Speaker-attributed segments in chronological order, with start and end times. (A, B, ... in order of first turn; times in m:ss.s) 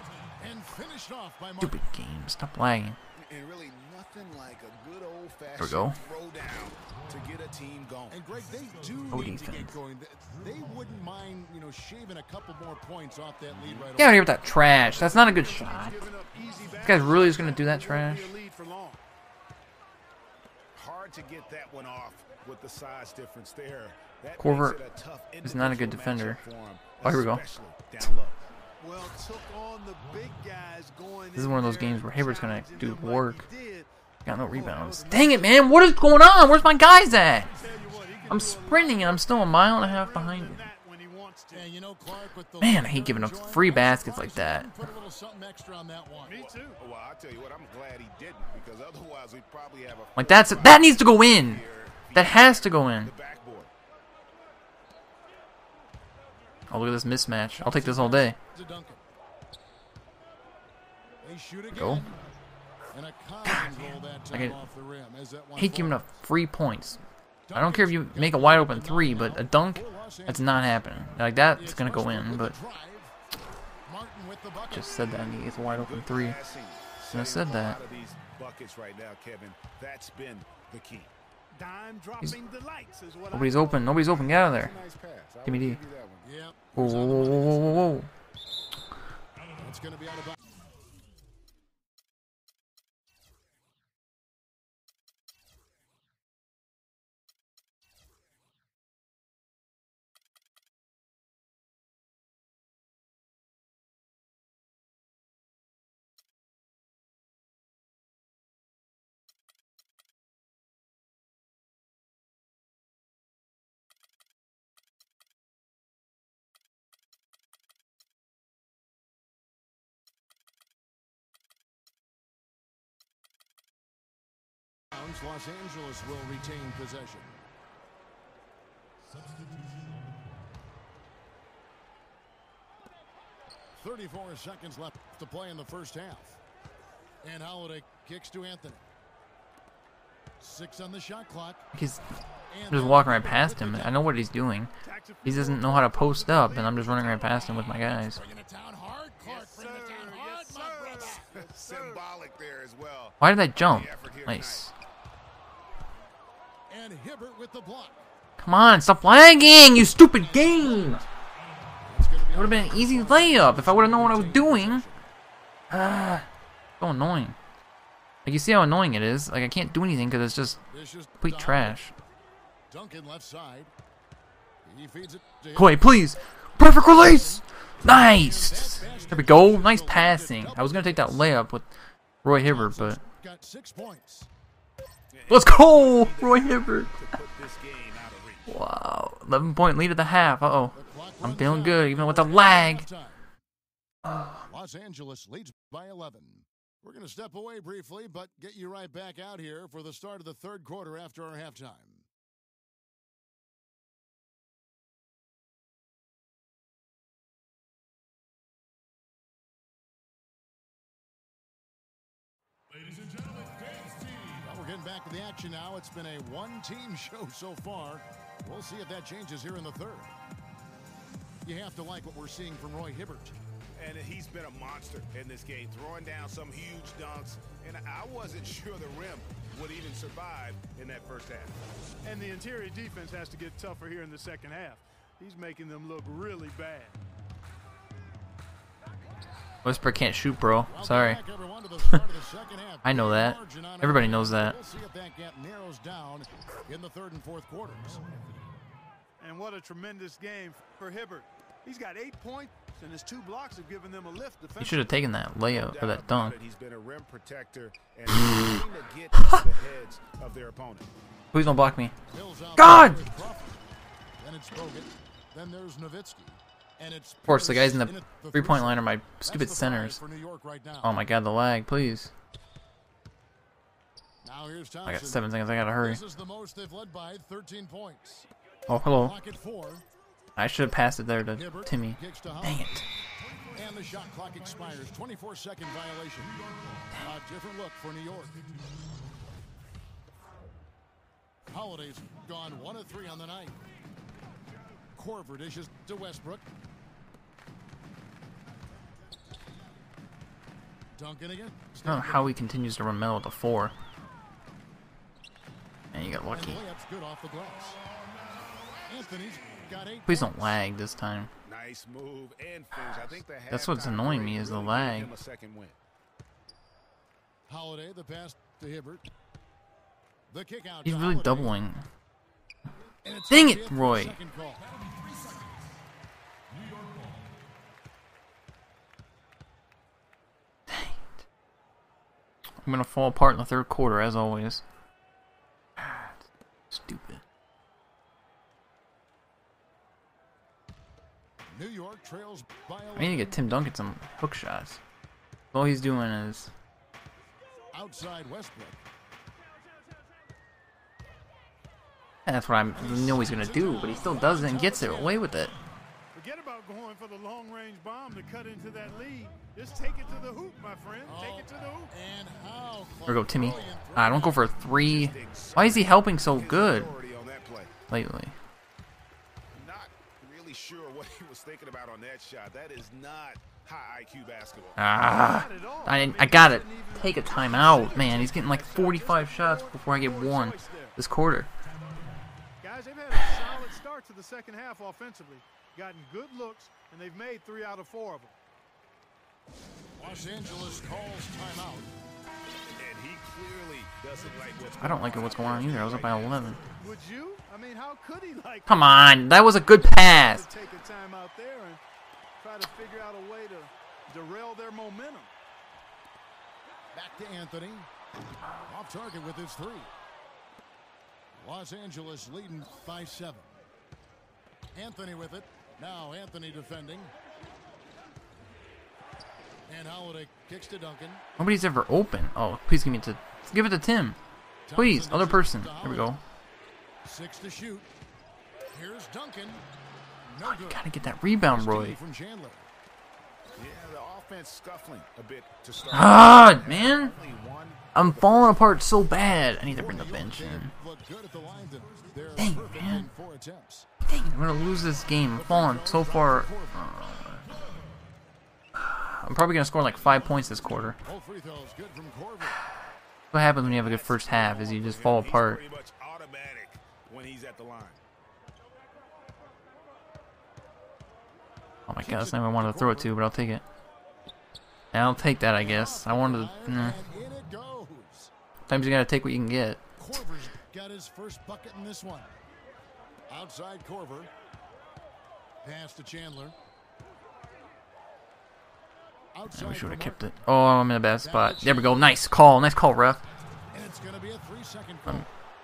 0:00.4-0:01.8 A
0:01.6-0:03.0 B
0:03.1-0:08.2 C
0:05.6-0:06.0 B
0:08.1-0:14.3 A
0:09.1-0:09.7 B
0:13.5-0:13.9 C
0:14.0-0:16.1 B
0:14.8-0:19.0 D
0:16.8-0:18.3 B
0:20.7-0:28.4 C
0:24.4-0:24.8 B
0:25.4-0:26.4 B
0:27.0-0:27.4 B
0:28.8-0:33.9 D
0:31.4-0:33.4 B
0:34.2-0:37.6 B
0:34.5-0:35.7 D
0:37.5-0:41.7 D
0:38.3-0:40.6 B
0:41.5-0:46.4 A
0:42.6-0:44.7 B
0:46.2-0:46.8 D
0:46.3-0:53.7 C
0:50.2-0:51.6 B
0:52.1-0:53.1 B
0:56.7-0:58.4 B
0:57.5-0:59.0 A
1:01.2-1:02.2 A
1:01.7-1:02.0 B
1:02.9-1:06.0 A
1:04.3-1:04.6 B
1:05.6-1:07.0 B
1:07.5-1:10.6 A
1:07.5-1:12.6 B
1:11.5-1:13.1 A
1:13.8-1:15.5 A
1:14.7-1:16.4 B
1:15.6-1:21.1 C
1:17.1-1:17.8 B
1:21.5-1:24.1 D
1:23.3-1:24.7 B
1:23.9-1:26.3 C
1:25.4-1:25.8 B
1:26.2-1:28.0 A
1:26.7-1:28.1 B
1:29.6-1:30.4 A
2:04.9-2:07.4 A
2:13.7-2:16.4 A
2:17.2-2:18.9 A
2:20.4-2:21.7 A
2:21.7-2:22.0 B
2:22.5-2:24.0 A
2:22.7-2:24.7 B
2:24.8-2:28.0 D
2:25.2-2:28.2 B
2:28.1-2:31.2 A
2:29.2-2:32.0 D
2:31.3-2:34.7 C
2:33.2-2:34.7 B
2:36.7-2:38.1 A
2:38.4-2:41.0 B
2:40.0-2:41.1 A
2:41.8-2:45.1 A
2:42.3-2:44.8 B
2:45.7-2:46.3 B
2:46.8-2:47.4 B
2:48.2-2:50.6 B
2:50.6-2:51.8 A
2:51.2-2:51.9 B
2:52.7-2:53.7 A
2:54.6-2:56.0 A
2:55.6-3:01.7 B
2:56.6-3:01.4 A
3:02.2-3:03.0 B
3:02.4-3:04.3 A
3:05.1-3:08.5 C
3:05.3-3:06.9 B
3:08.5-3:12.8 B
3:10.7-3:13.2 A
3:14.0-3:14.5 B
3:14.5-3:22.0 A
3:34.3-3:40.1 A
3:41.4-3:43.4 A
3:43.8-3:51.6 C
3:52.0-3:57.0 D
3:59.6-4:01.2 B
4:00.7-4:08.2 A
4:02.8-4:04.5 B
4:09.2-4:15.0 D
4:14.6-4:16.4 B
4:15.4-4:20.9 C
4:21.3-4:21.9 B
4:22.1-4:23.6 A
4:22.6-4:23.0 B
4:24.2-4:31.0 A
4:27.3-4:30.0 B
4:30.8-4:32.1 B
4:34.2-4:38.3 A
4:34.9-4:36.0 B
4:38.7-4:39.2 B
4:38.9-4:39.8 A
4:40.4-4:42.8 B
4:41.3-4:42.8 A
4:43.5-4:48.4 A
4:51.5-4:53.6 A
4:54.9-4:56.5 A
5:00.9-5:02.4 A
5:01.8-5:03.7 B
5:05.9-5:06.6 B
5:06.3-5:07.8 A
5:08.8-5:10.5 A
5:10.1-5:11.3 B
5:11.4-5:15.8 C
5:13.5-5:15.1 B
5:17.5-5:19.0 A
5:20.3-5:21.6 A
5:20.8-5:21.8 B
5:23.0-5:24.7 A
5:23.3-5:24.2 B
5:30.7-5:31.0 B
5:32.6-5:34.6 B
5:35.8-5:36.2 B
5:36.7-5:37.2 B
5:41.5-5:43.4 A
5:43.0-5:44.8 B
5:45.5-5:46.5 B
5:47.7-5:48.8 A
5:52.2-5:55.5 B
5:52.7-5:55.4 A
5:56.1-6:01.9 D
6:01.0-6:04.6 A
6:03.1-6:06.9 B
6:04.7-6:07.7 C
6:07.9-6:08.3 B
6:09.5-6:14.8 C
6:14.8-6:21.5 B
6:15.0-6:21.0 D
6:22.6-6:28.4 D
6:30.0-6:31.9 A
6:32.8-6:36.6 C
6:34.8-6:36.6 B
6:36.8-6:39.2 D
6:38.7-6:40.5 B
6:39.9-6:41.8 D
6:42.4-6:45.3 D
6:46.9-6:47.9 A
6:48.6-6:49.9 A
6:51.4-6:53.6 A
6:54.7-6:57.1 A
6:59.7-7:01.2 A
7:01.4-7:04.2 B
7:04.7-7:06.2 A
7:04.8-7:06.2 B
7:07.0-7:07.9 A
7:08.7-7:09.6 A
7:10.3-7:10.8 A
7:10.4-7:12.0 B
7:11.4-7:12.7 A
7:13.6-7:19.2 C
7:15.9-7:17.1 B
7:17.9-7:20.7 B
7:19.6-7:23.9 A
7:22.4-7:23.1 B
7:24.1-7:27.5 B
7:25.3-7:27.0 A
7:28.7-7:31.0 B
7:31.0-7:32.6 A
7:33.3-7:35.6 B
7:33.6-7:38.0 C
7:41.9-7:43.6 B
7:42.0-7:43.1 A
7:44.9-7:47.0 B
7:45.5-7:48.3 A
7:48.7-7:49.8 B
7:50.0-7:52.4 A
7:53.3-7:54.3 A
7:55.6-7:56.5 A
7:59.3-8:00.3 A
7:59.5-8:03.2 B
8:01.2-8:02.2 A
8:03.7-8:05.3 A